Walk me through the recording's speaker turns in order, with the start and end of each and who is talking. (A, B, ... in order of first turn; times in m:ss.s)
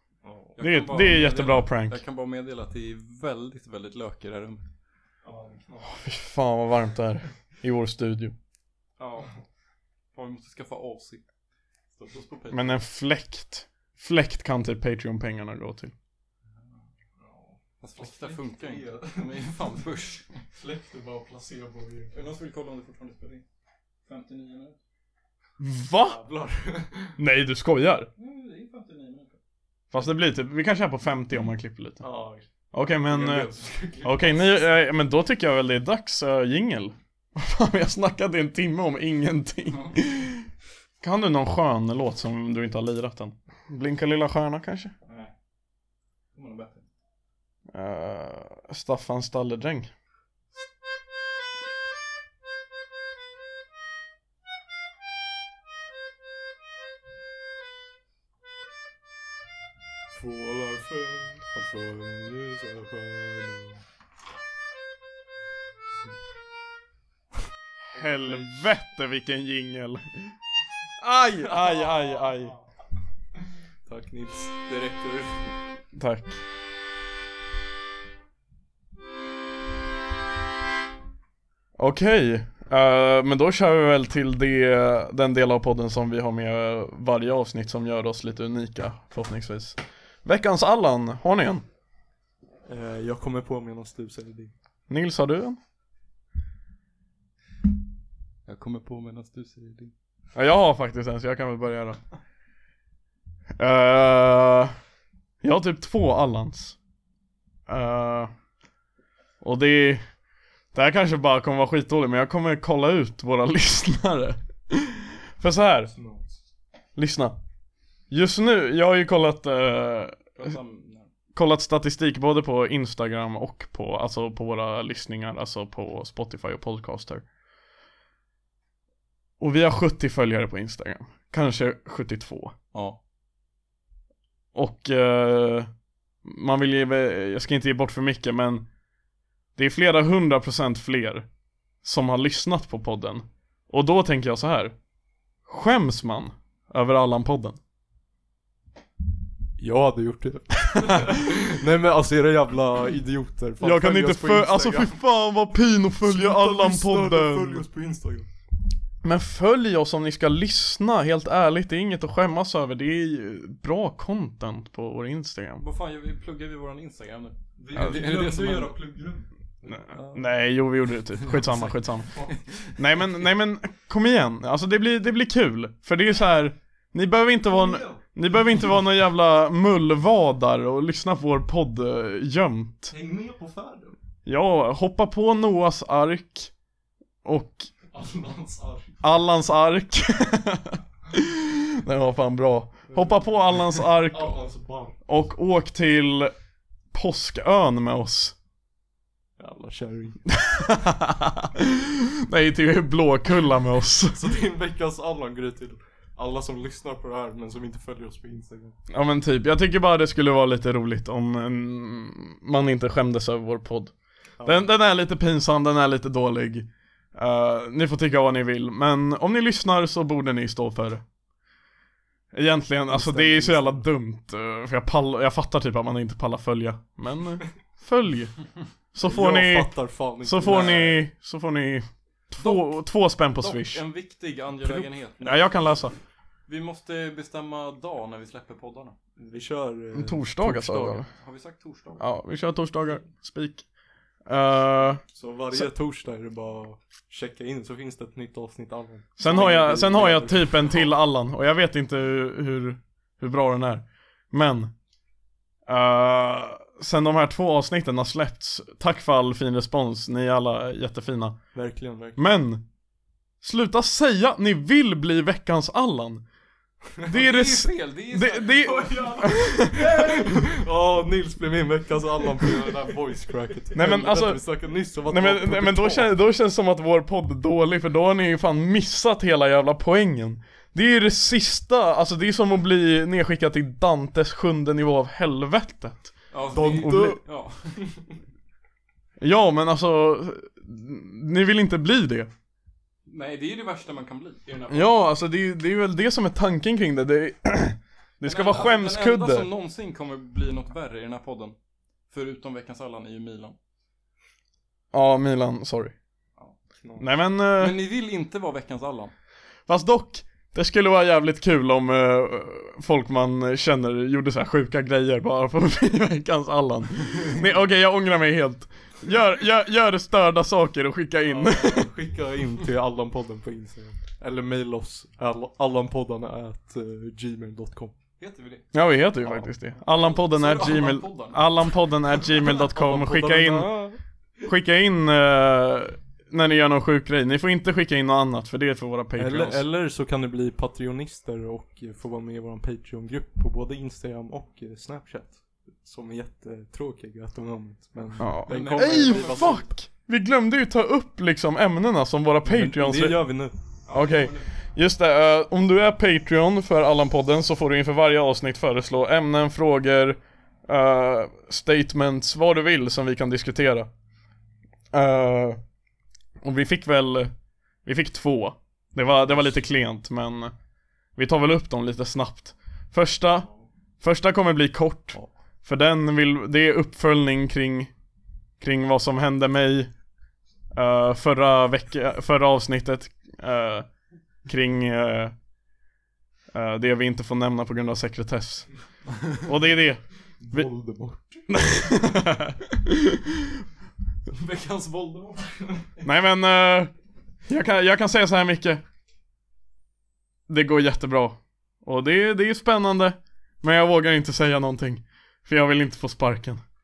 0:00.2-0:00.5 A
0:00.6-0:04.7 B
0:00.6-0:02.0 C
0:05.2-0:05.9 A
0:05.8-0:08.3 C
0:09.0-0:09.3 B
0:10.1-0:11.2 B
0:12.0-0:12.8 B
0:12.5-0:15.9 C
0:17.2-0:19.5 A
0:17.8-0:20.4 B
0:20.5-0:22.1 A
0:22.1-0:23.4 B
0:24.0-0:24.8 B
0:25.6-0:26.2 C
0:26.0-0:27.2 A
0:27.2-0:28.1 C
0:28.2-0:29.4 B
0:29.9-0:32.0 C
0:32.0-0:32.4 A
0:32.7-0:33.5 C
0:33.1-0:34.6 A
0:34.0-0:40.5 C
0:39.7-0:40.0 B
0:41.0-0:44.9 C
0:45.0-0:45.3 B
0:46.3-0:46.8 B
0:47.7-0:49.9 C
1:00.1-1:03.8 A
1:07.9-1:10.3 C
1:08.0-1:08.6 A
1:11.0-1:12.5 C
1:11.5-1:12.4 A
1:13.8-1:15.5 A
1:15.9-1:16.4 C
1:21.8-1:31.6 C
1:32.6-1:34.5 A
1:34.9-1:35.6 C
1:38.4-1:39.9 B
1:40.3-1:42.0 C
1:43.6-1:44.7 C
1:45.4-1:46.8 C
1:47.7-1:48.3 C
1:49.4-1:50.0 C
1:50.7-1:55.9 C
1:55.9-1:56.3 A
1:57.0-1:57.4 C
1:58.1-2:00.6 C
2:00.3-2:01.1 B
2:01.3-2:07.2 C
2:09.4-2:12.5 C
2:14.5-2:15.7 C
2:16.2-2:18.7 C
2:19.6-2:21.2 C
2:21.8-2:24.7 C
2:25.4-2:27.6 C
2:29.6-2:34.9 A
2:33.6-2:37.6 C
2:36.0-2:38.3 A
2:39.0-2:45.6 C
2:45.6-2:48.7 B
2:47.6-2:50.0 A
2:49.7-2:52.1 C
2:49.9-2:50.2 B
2:51.2-2:52.8 B
2:52.8-3:02.9 C
2:57.5-2:58.0 A
3:02.9-3:04.0 A
3:04.2-3:06.5 C
3:07.2-3:07.7 C
3:07.9-3:09.0 A
3:09.0-3:14.4 C
3:12.9-3:13.2 A
3:13.8-3:15.0 A
3:15.1-3:16.3 C
3:16.9-3:18.3 C
3:19.4-3:20.2 A
3:20.3-3:24.2 C
3:24.1-3:28.8 A
3:28.9-3:33.9 C
3:34.4-3:34.7 A
3:34.4-3:41.0 C
3:42.3-3:53.8 C
3:42.9-3:43.9 A
3:49.0-3:51.0 A
3:50.4-3:50.9 B
3:52.4-3:52.8 B
3:53.3-3:55.6 B
3:54.6-3:55.9 C
3:56.5-3:58.9 B
3:59.2-4:01.0 A
3:59.9-4:01.1 C
4:01.1-4:02.0 B
4:02.0-4:03.6 C
4:04.3-4:05.7 C
4:05.1-4:10.9 A
4:09.2-4:14.7 C
4:15.7-4:21.4 C
4:21.5-4:22.2 A
4:22.2-4:22.6 C
4:23.4-4:26.2 C
4:27.1-4:30.2 B
4:27.1-4:30.2 C
4:29.7-4:36.1 A
4:33.7-4:34.4 C
4:35.1-4:47.2 C
4:46.3-4:47.8 B
4:46.5-4:47.1 A
4:49.2-4:52.3 C
4:53.1-4:55.0 B
4:54.7-4:59.5 C
4:58.2-5:01.6 B
5:02.1-5:03.6 B
5:04.9-5:05.9 C
5:06.8-5:07.1 A
5:07.0-5:07.8 C
5:07.6-5:09.1 B
5:09.7-5:21.9 C
5:21.3-5:28.0 A
5:28.2-5:28.7 B
5:28.7-5:33.7 C
5:29.2-5:31.7 B
5:32.5-5:34.0 A
5:34.4-5:39.6 C
5:39.1-5:49.6 A
5:48.2-5:53.2 C
5:48.5-5:49.7 B
5:52.4-5:53.5 A
5:53.9-5:54.5 B
5:53.9-6:03.9 C
6:04.9-6:05.6 C
6:06.4-6:07.3 C
6:07.8-6:10.5 C
6:11.2-6:13.5 C
6:14.0-6:17.9 C
6:18.6-6:19.9 C
6:20.7-6:23.9 C
6:24.4-6:25.3 C
6:26.5-6:28.7 C
6:29.2-6:30.7 C
6:30.4-6:31.6 A
6:31.5-6:33.5 C
6:34.3-6:36.1 B
6:36.0-6:36.9 C
6:37.5-6:38.8 C
6:40.5-6:46.6 C